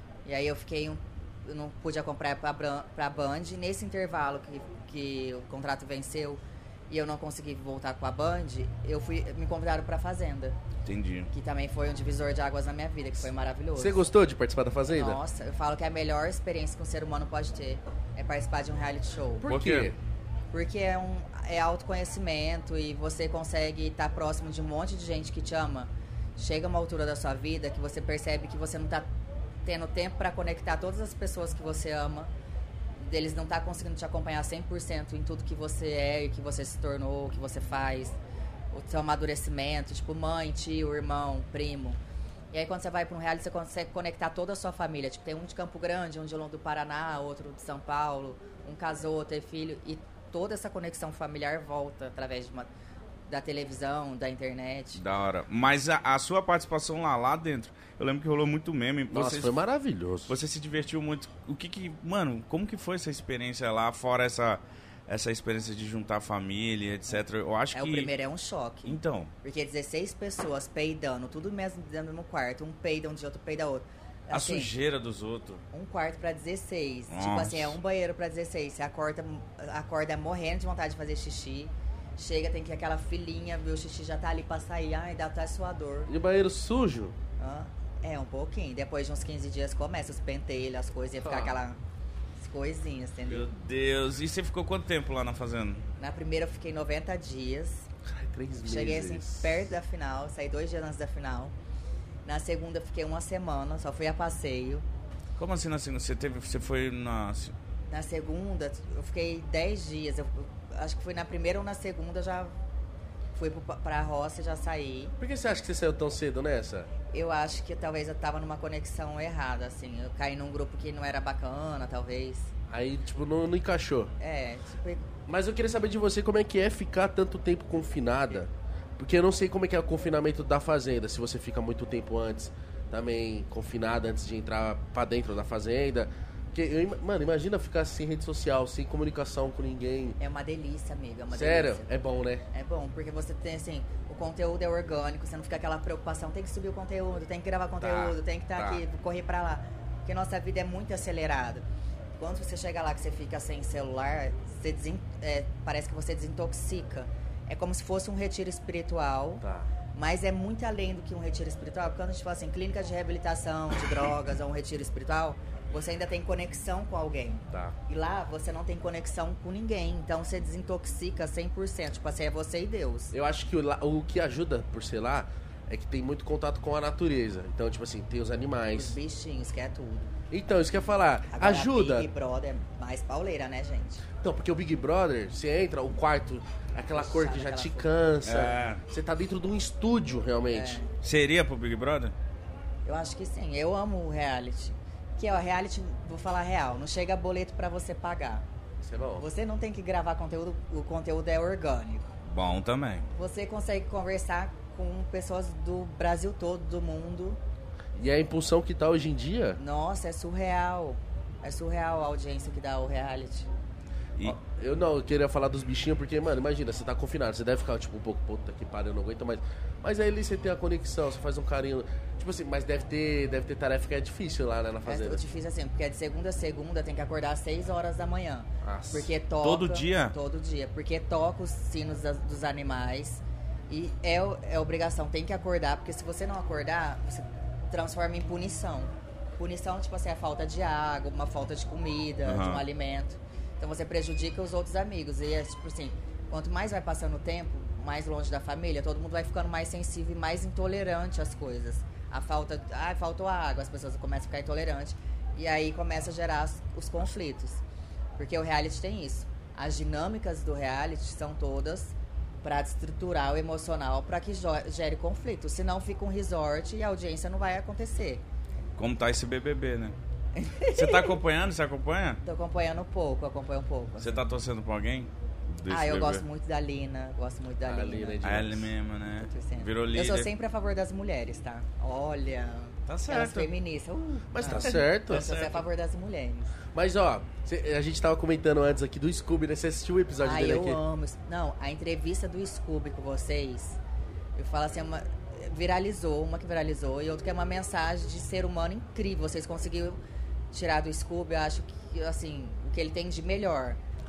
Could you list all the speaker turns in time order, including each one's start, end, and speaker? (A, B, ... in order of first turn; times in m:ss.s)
0:00.2-0:10.6 A
0:10.8-0:11.3 B
0:11.3-0:14.1 A
0:13.8-0:15.2 C
0:14.9-0:19.5 A
0:19.4-0:20.0 C
0:19.4-0:19.9 B
0:20.5-0:29.1 A
0:29.6-0:32.3 A
0:33.0-0:38.2 A
0:38.7-0:42.0 A
0:42.5-0:52.7 A
0:53.3-0:55.0 A
0:55.0-0:59.6 B
0:59.1-1:00.4 C
1:00.3-1:08.1 B
1:07.7-1:14.7 A
1:08.8-1:09.3 B
1:14.3-1:15.6 B
1:15.7-1:26.1 A
1:17.1-1:17.8 B
1:26.1-1:27.2 C
1:27.4-1:31.8 A
1:31.2-1:31.6 C
1:32.4-1:33.5 A
1:33.3-1:35.8 B
1:36.0-1:37.9 A
1:38.0-1:39.6 C
1:38.6-1:41.5 A
1:42.2-1:44.8 A
1:45.4-1:47.5 B
1:47.9-1:52.6 A
1:53.3-1:55.2 A
1:55.2-1:56.9 C
1:57.1-2:02.5 A
2:02.7-2:04.1 C
2:04.2-2:05.1 A
2:05.3-2:20.2 C
2:20.2-2:21.9 A
2:21.3-2:22.4 C
2:22.5-2:31.6 A
2:27.8-2:28.8 C
2:32.2-2:53.1 A
2:39.4-2:39.7 C
2:53.1-2:59.0 C
2:58.7-3:00.1 A
3:00.3-3:02.1 C
3:01.3-3:04.0 A
3:04.2-3:10.8 C
3:06.9-3:07.9 A
3:08.2-3:08.8 B
3:10.5-3:10.9 A
3:11.0-3:12.1 B
3:12.8-3:18.4 A
3:18.8-3:19.2 C
3:19.2-3:22.1 A
3:22.2-3:23.1 B
3:23.1-3:27.4 A
3:27.9-3:29.6 C
3:29.6-3:33.5 A
3:34.2-3:45.2 C
3:44.8-4:17.6 A
3:48.6-3:49.1 C
3:49.4-3:50.1 B
4:02.2-4:02.6 B
4:18.2-4:28.2 A
4:28.8-4:30.0 B
4:30.3-4:31.2 A
4:30.7-4:32.2 B
4:32.2-4:34.2 A
4:34.0-4:36.2 B
4:35.7-4:38.2 A
4:37.6-4:38.7 C
4:38.2-4:40.3 B
4:39.2-4:46.5 A
4:42.9-4:43.5 B
4:44.3-4:45.3 C
4:44.6-4:45.6 B
4:46.7-4:50.8 C
4:50.2-4:53.8 A
4:54.4-5:00.0 A
5:00.5-5:03.8 A